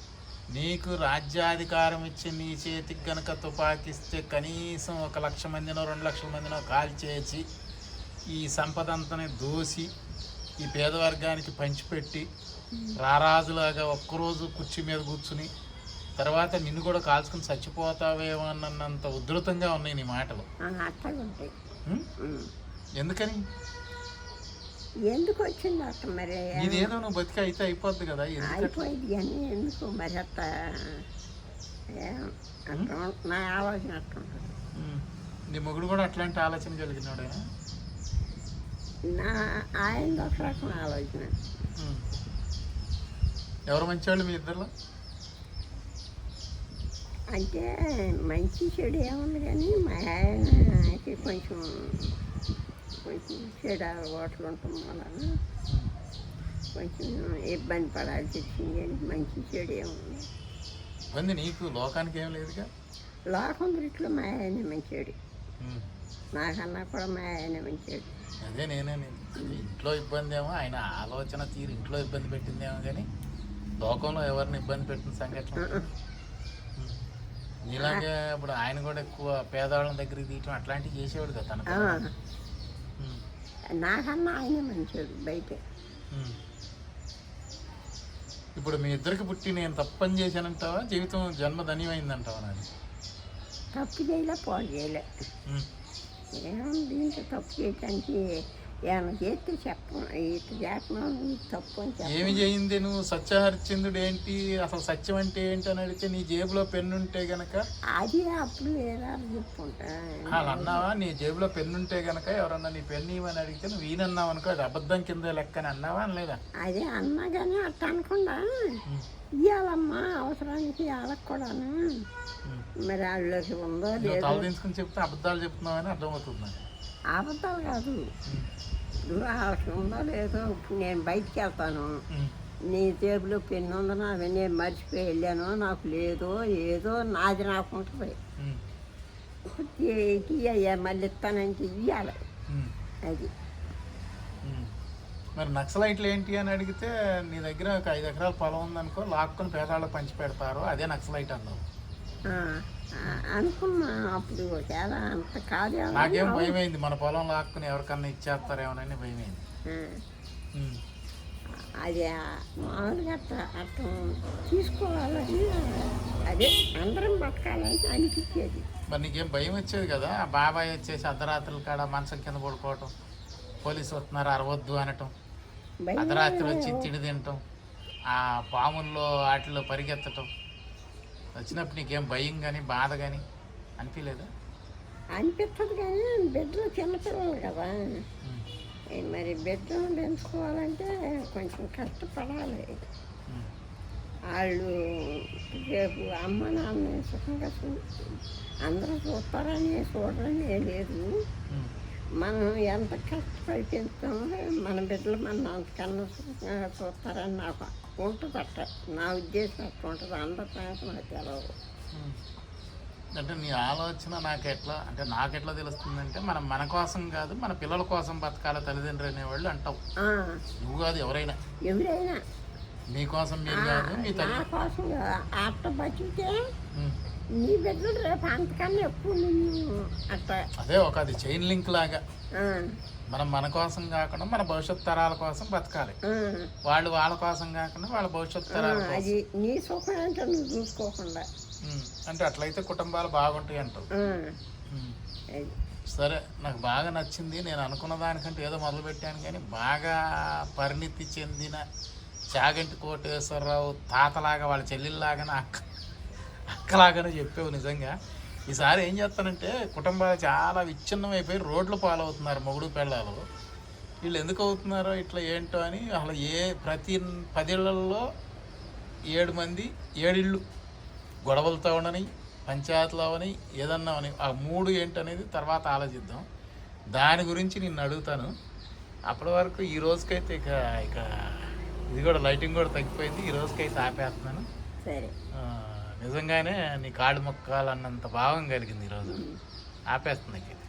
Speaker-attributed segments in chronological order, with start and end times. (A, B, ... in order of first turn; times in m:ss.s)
0:00.5-0:07.4 A
0:08.3-0:09.9 A
0:10.6-0:12.3 A
0:12.7-0:13.0 B
0:13.0-0:15.5 A
0:16.2-0:20.5 A
0:20.6-0:21.5 B
0:22.2-0:22.5 B
0:23.0-0:23.4 A
0:25.1-0:26.9 B
0:26.6-0:28.9 A
0:28.4-0:31.0 B
0:31.9-0:34.5 B
0:34.8-0:37.4 A
0:39.1-0:41.3 B
0:41.8-0:42.0 A
0:43.7-0:44.7 A
0:47.3-0:52.1 B
0:53.0-0:55.4 B
0:56.8-1:00.3 B
1:01.1-1:02.7 A
1:03.3-1:05.2 B
1:05.6-1:05.9 A
1:06.4-1:08.1 B
1:08.4-1:13.1 A
1:13.8-1:15.8 A
1:15.6-1:15.9 B
1:17.7-1:22.0 A
1:17.8-1:18.0 B
1:21.7-1:22.1 B
1:23.0-1:23.2 A
1:23.7-1:25.6 B
1:26.1-1:26.4 A
1:28.6-1:32.7 A
1:33.8-1:35.1 B
1:36.3-1:42.4 B
1:42.1-1:47.6 A
1:48.0-1:50.8 B
1:50.3-1:56.4 A
1:56.6-1:58.8 B
1:59.4-2:02.0 B
2:02.8-2:04.5 B
2:04.0-2:06.6 A
2:07.1-2:08.1 B
2:09.1-2:12.0 B
2:12.7-2:18.2 B
2:19.5-2:22.2 B
2:22.5-2:22.7 A
2:23.1-2:23.3 B
2:24.4-2:24.7 A
2:25.4-2:31.6 A
2:32.3-2:36.6 B
2:35.9-2:39.4 A
2:39.7-2:40.0 B
2:40.5-2:40.8 A
2:41.8-2:48.7 B
2:48.9-2:52.9 A
2:53.6-2:55.1 A
2:55.9-2:56.9 B
2:56.0-2:57.4 A
2:58.1-3:00.3 A
3:01.4-3:03.2 A
3:03.8-3:04.3 A
3:05.2-3:08.0 B
3:09.0-3:12.8 B
3:14.3-3:17.8 B
3:18.7-3:21.1 B
3:22.2-3:31.5 B
3:31.9-3:32.2 A
3:33.2-3:39.8 A
3:40.0-3:40.4 B
3:40.6-3:41.4 A
3:41.7-3:42.2 B
3:42.9-3:44.4 A
3:43.5-3:46.4 B
3:47.4-3:50.4 B
3:50.6-3:52.0 A
3:52.4-3:52.8 B
3:53.1-3:56.0 A
3:56.1-3:56.5 B
3:56.6-3:59.1 A
3:58.5-4:01.3 B
4:01.6-4:03.9 A
4:03.9-4:04.4 B
4:04.7-4:05.0 A
4:05.9-4:11.6 A
4:12.3-4:15.7 A
4:16.5-4:18.0 A
4:18.5-4:23.3 A
4:24.0-4:28.1 A
4:29.1-4:30.4 A
4:31.2-4:36.3 A
4:37.0-4:38.3 A
4:39.1-4:44.5 A
4:44.8-4:45.1 B
4:45.3-4:49.2 A
4:49.1-4:49.4 B
4:49.9-4:50.6 A